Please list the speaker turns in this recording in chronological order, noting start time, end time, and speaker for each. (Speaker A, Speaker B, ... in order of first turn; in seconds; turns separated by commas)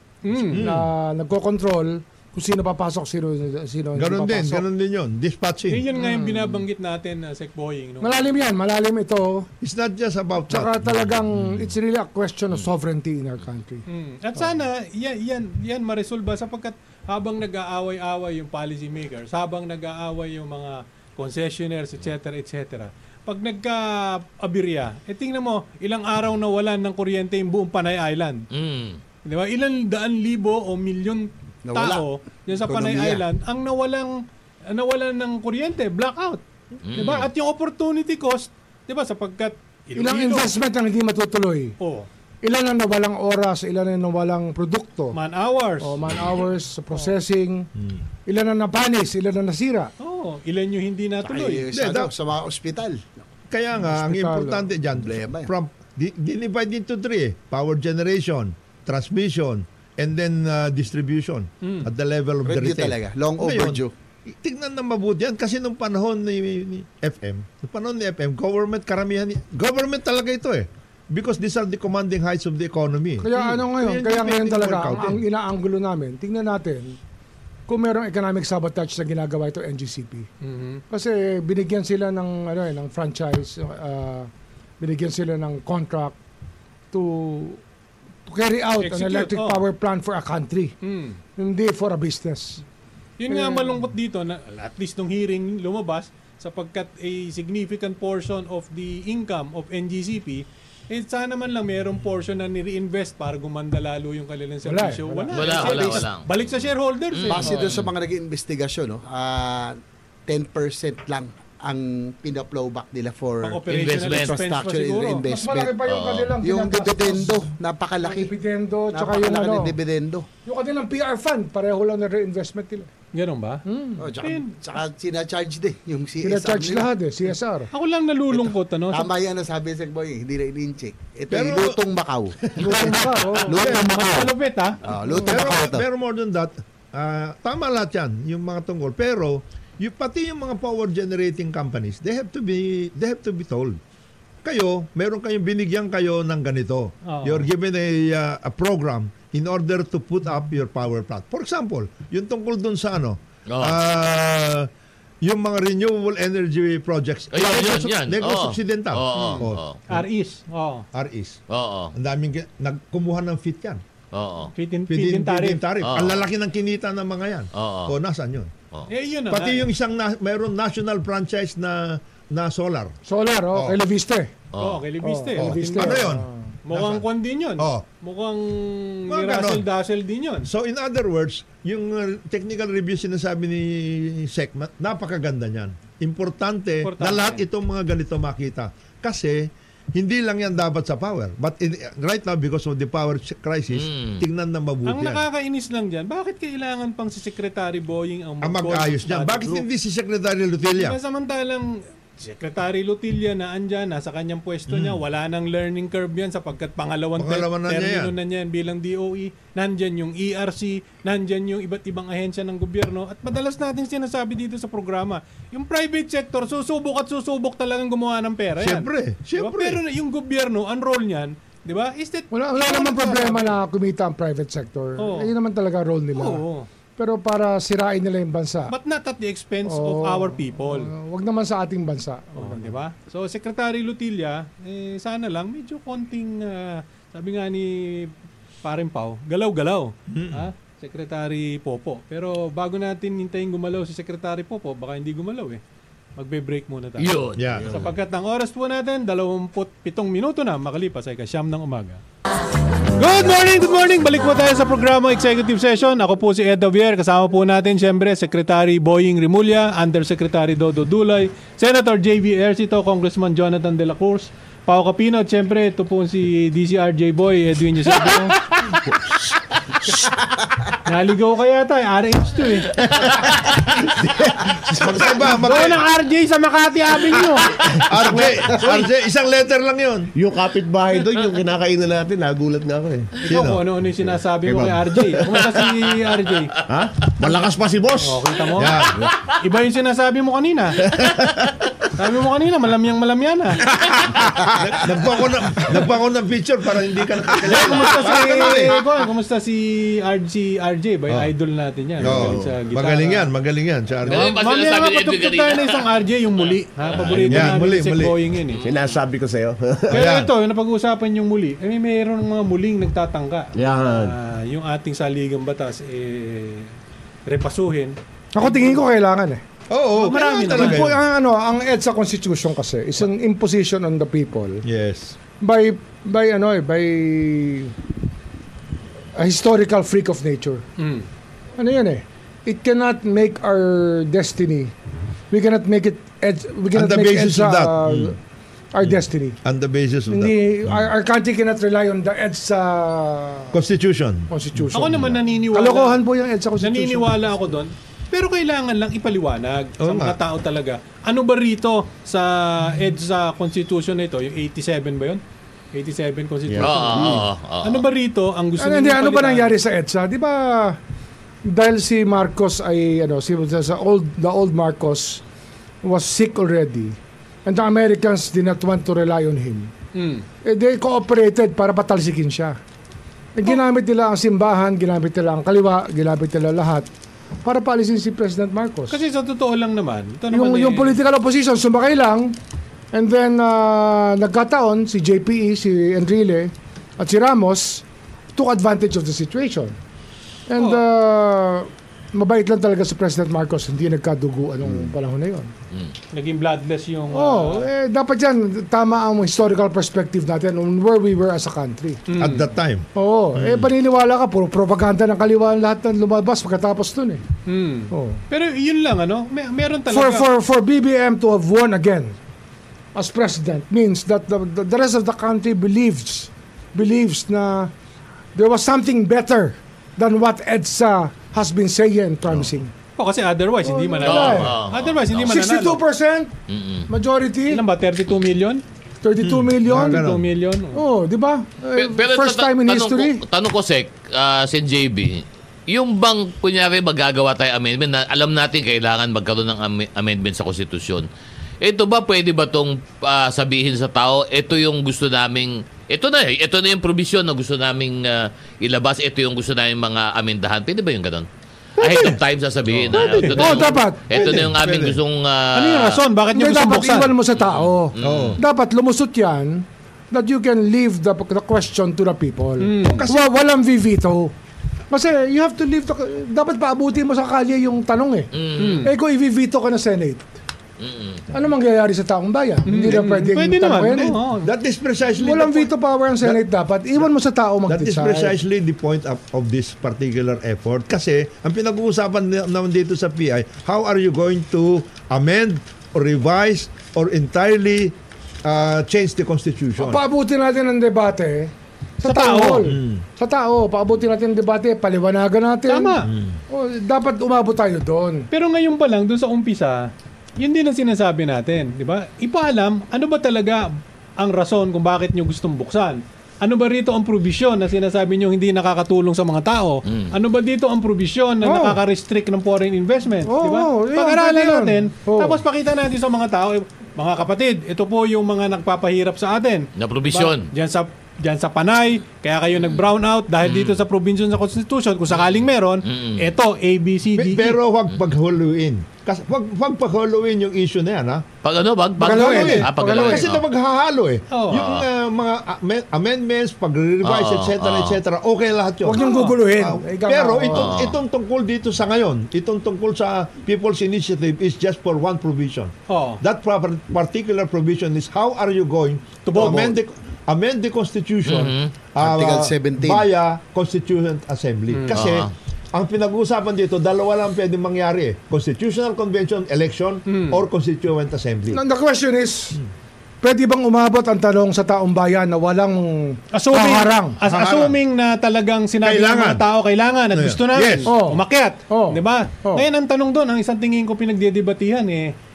Speaker A: 0.2-0.7, Speaker B: 0.4-4.6, Speaker C: 0.5-0.9, Speaker C: 4.0-5.8, Speaker A: 5.7-8.2, Speaker B: 5.9-6.6, Speaker B: 8.0-9.5, Speaker C: 9.6-11.7, Speaker B: 10.5-13.8, Speaker A: 13.9-28.4, Speaker D: 28.5-29.0, Speaker A: 29.2-40.5, Speaker E: 31.6-33.2, Speaker D: 36.8-37.3, Speaker B: 40.0-41.8, Speaker A: 41.8-42.1, Speaker B: 42.4-45.2, Speaker A: 45.1-46.1, Speaker B: 45.8-47.7, Speaker C: 47.8-48.0, Speaker B: 48.2-49.9, Speaker A: 50.0-51.6, Speaker E: 51.2-53.1, Speaker C: 51.7-52.1, Speaker C: 53.5-75.2, Speaker B: 53.8-54.7, Speaker E: 55.0-55.5, Speaker A: 61.6-61.9, Speaker E: 62.4-63.9, Speaker B: 73.2-77.0, Speaker B: 77.7-80.3, Speaker A: 80.4-80.8, Speaker B: 80.9-86.1, Speaker B: 86.9-87.6, Speaker B: 88.2-90.8, Speaker A: 88.8-89.6, Speaker A: 90.8-91.2, Speaker B: 91.4-92.6, Speaker A: 93.2-107.6, Speaker B: 93.3-93.9, Speaker B: 104.6-105.9, Speaker D: 105.3-106.5, Speaker D: 107.1-107.9, Speaker E: 107.3-115.8, Speaker A: 113.4-115.2, Speaker D: 113.7-114.4, Speaker B: 115.3-119.8, Speaker D: 115.8-116.3, Speaker E: 116.4-118.3, Speaker E: 118.9-120.3, Speaker B: 120.4-122.9, Speaker A: 123.1-123.6, Speaker B: 123.7-124.1, Speaker E: 124.0-126.9, Speaker A: 124.2-124.5, Speaker B: 126.2-127.7, Speaker A: 127.7-129.1, Speaker E: 128.3-132.9, Speaker C: 131.3-131.8, Speaker C: 132.4-133.0, Speaker B: 132.6-133.6, Speaker E: 133.5-135.8, Speaker A: 133.5-134.8, Speaker B: 135.1-135.5, Speaker C: 135.2-143.8, Speaker C: 144.4-154.7, Speaker A: 147.0-147.5, Speaker D: 153.5-153.8, Speaker C: 155.2-160.0, Speaker D: 157.3-159.8, Speaker A: 159.9-160.8, Speaker C: 160.9-161.4, Speaker D: 161.5-161.9, Speaker C: 161.9-163.8, Speaker D: 164.1-164.5, Speaker A: 164.6-165.6, Speaker C: 164.9-168.5, Speaker D: 165.8-166.2, Speaker D: 167.5-167.9, Speaker A: 168.9-169.7, Speaker C: 169.3-172.9, Speaker B: 173.1-174.3, Speaker C: 173.5-173.8, Speaker D: 174.5-174.8, Speaker A: 174.6-176.0, Speaker B: 175.0-176.5, Speaker C: 175.3-177.1, Speaker A: 176.7-180.5, Speaker C: 177.6-177.8, Speaker C: 179.1-179.7, Speaker C: 180.4-195.2, Speaker A: 186.8-187.4, Speaker D: 193.7-194.2, Speaker A: 194.8-199.7, Speaker C: 198.4-201.0, Speaker A: 200.7-223.6, Speaker C: 204.7-205.0, Speaker C: 207.2-208.1, Speaker C: 218.6-219.8, Speaker B: 222.3-226.4, Speaker A: 225.0-225.3, Speaker A: 226.2-226.7, Speaker B: 227.0-228.7, Speaker A: 228.7-230.9, Speaker B: 229.7-232.8, Speaker A: 232.3-245.6, Speaker C: 240.1-240.5, Speaker A: 246.2-252.0, Speaker D: 247.0-247.4, Speaker C: 247.3-247.8, Speaker A: 252.9-268.4, Speaker A: 270.8-272.7, Speaker F: 273.8-275.2, Speaker C: 274.7-275.8, Speaker A: 275.2-277.5, Speaker F: 277.8-278.3, Speaker C: 277.9-280.1, Speaker F: 280.1-283.2, Speaker A: 283.2-286.5, Speaker C: 283.2-283.6, Speaker F: 284.0-285.4, Speaker F: 286.7-288.2, Speaker A: 288.0-288.8, Speaker C: 288.6-289.0, Speaker A: 289.4-290.8, Speaker F: 290.8-291.3, Speaker A: 291.9-293.6, Speaker C: 294.6-298.8, Speaker A: 297.4-303.3, Speaker F: 302.0-302.6, Speaker C: 302.0-304.3, Speaker D: 304.1-305.9, Speaker A: 304.1-308.6, Speaker D: 306.9-307.2, Speaker F: 307.1-307.5, Speaker C: 307.2-308.2, Speaker D: 308.5-309.0, Speaker F: 308.6-310.1, Speaker A: 309.9-316.7, Speaker C: 309.9-310.3, Speaker F: 313.5-314.2, Speaker A: 317.3-318.0, Speaker B: 318.3-319.4, Speaker C: 319.7-321.0, Speaker A: 320.0-320.9, Speaker B: 320.3-324.6, Speaker C: 324.6-325.1, Speaker B: 325.4-327.7, Speaker B: 329.1-330.6, Speaker A: 330.8-331.1, Speaker B: 331.6-334.7, Speaker B: 335.3-338.2, Speaker C: 336.7-338.2, Speaker B: 338.7-339.4, Speaker C: 338.8-340.9, Speaker B: 340.1-343.6, Speaker C: 343.5-345.1, Speaker B: 344.3-347.2, Speaker A: 344.7-346.0, Speaker A: 346.6-355.2, Speaker C: 349.8-350.2, Speaker A: 355.7-359.5, Speaker F: 356.5-357.3, Speaker D: 356.6-357.8, Speaker B: 358.6-360.8, Speaker B: 361.4-365.2, Speaker B: 365.8-369.7, Speaker A: 369.9-370.2, Speaker B: 370.4-372.6, Speaker B: 373.3-376.9, Speaker B: 377.4-379.0, Speaker A: 378.9-381.0, Speaker B: 380.3-382.4, Speaker B: 382.9-387.8, Speaker B: 388.3-389.8, Speaker B: 390.5-395.5, Speaker A: 390.6-390.8, Speaker A: 396.1-397.7, Speaker B: 397.1-402.0, Speaker A: 402.1-402.5, Speaker C: 402.2-402.9, Speaker B: 403.0-407.2, Speaker A: 407.5-410.3, Speaker B: 407.9-408.2, Speaker B: 409.9-412.1, Speaker B: 412.9-417.7, Speaker B: 418.3-422.7, Speaker A: 423.0-425.8, Speaker B: 423.6-424.5, Speaker D: 424.0-425.3, Speaker B: 425.2-426.3, Speaker D: 426.5-426.9, Speaker B: 426.9-427.6, Speaker A: 427.5-428.6, Speaker B: 429.0-430.0, Speaker C: 429.2-430.2, Speaker A: 429.7-430.8, Speaker B: 430.7-433.2, Speaker D: 431.8-441.1, Speaker D: 441.6-451.3, Speaker A: 451.8-452.2, Speaker D: 451.8-456.0, Speaker C: 452.7-453.2, Speaker A: 452.9-453.7, Speaker B: 453.2-454.0, Speaker C: 454.1-455.0, Speaker A: 455.5-457.2, Speaker B: 456.3-464.3, Speaker D: 457.3-458.4, Speaker C: 458.0-458.4, Speaker A: 462.6-463.0, Speaker C: 462.9-463.3, Speaker B: 464.9-470.3, Speaker D: 468.3-468.9, Speaker A: 468.6-468.9, Speaker D: 470.8-471.2, Speaker B: 471.3-474.2, Speaker A: 472.7-474.5, Speaker C: 474.4-476.4, Speaker B: 475.2-478.3, Speaker C: 477.7-490.0, Speaker B: 489.8-498.3, Speaker A: 492.0-492.7, Speaker C: 492.6-493.0, Speaker A: 495.7-496.1, Speaker C: 496.0-496.4, Speaker A: 498.3-527.6, Speaker D: 509.9-510.1, Speaker B: 511.4-511.8, Speaker B: 513.2-515.4, Speaker D: 519.8-520.5, Speaker D: 523.4-523.8, Speaker D: 525.8-526.2, Speaker C: 527.1-531.2, Speaker D: 531.4-533.4, Speaker B: 532.0-533.3, Speaker A: 532.1-532.6, Speaker C: 532.1-561.6, Speaker A: 534.3-534.8, Speaker D: 534.5-534.8, Speaker D: 537.0-538.0, Speaker B: 538.8-540.8, Speaker A: 539.0-539.4, Speaker D: 540.5-541.0, Speaker A: 545.9-546.2, Speaker A: 549.2-549.8, Speaker D: 551.2-551.7, Speaker E: 552.0-553.0, Speaker A: 554.7-555.0, Speaker D: 554.9-555.3, Speaker A: 560.1-560.4, Speaker B: 561.5-562.6, Speaker B: 563.2-567.2, Speaker A: 566.3-575.1, Speaker C: 567.2-567.8, Speaker C: 568.8-569.5, Speaker C: 570.1-570.9, Speaker B: 570.9-572.6